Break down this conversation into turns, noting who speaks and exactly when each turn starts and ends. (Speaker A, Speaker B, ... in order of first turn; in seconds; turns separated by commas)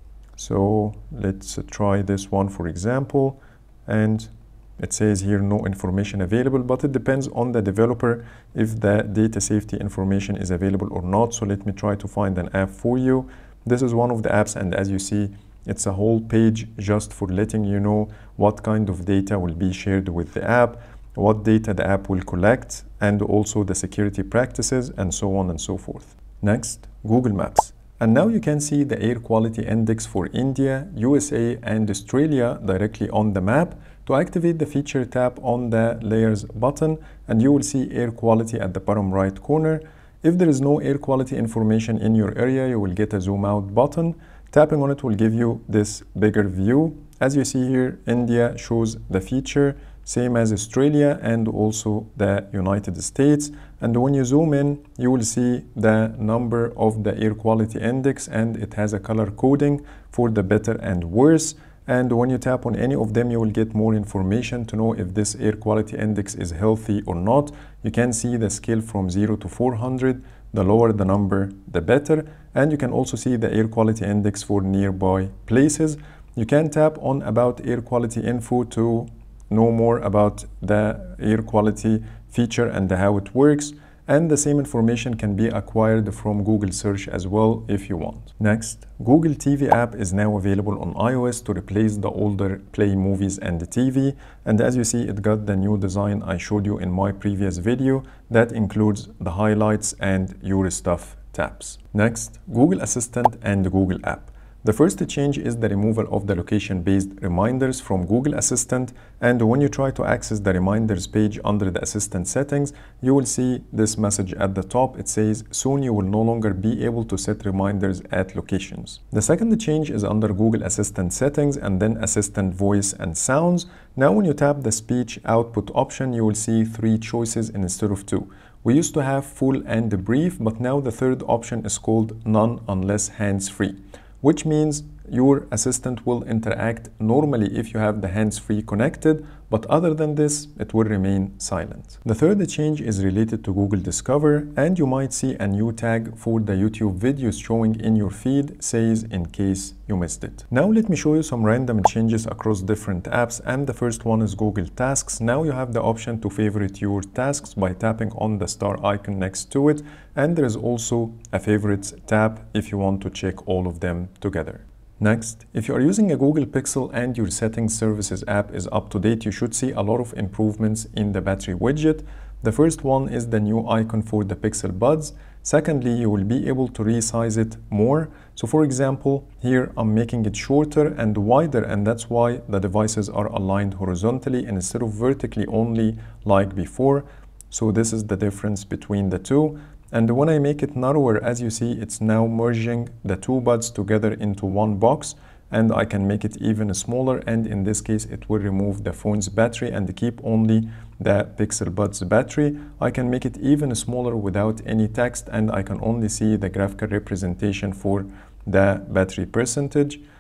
Speaker A: 0.4-210.0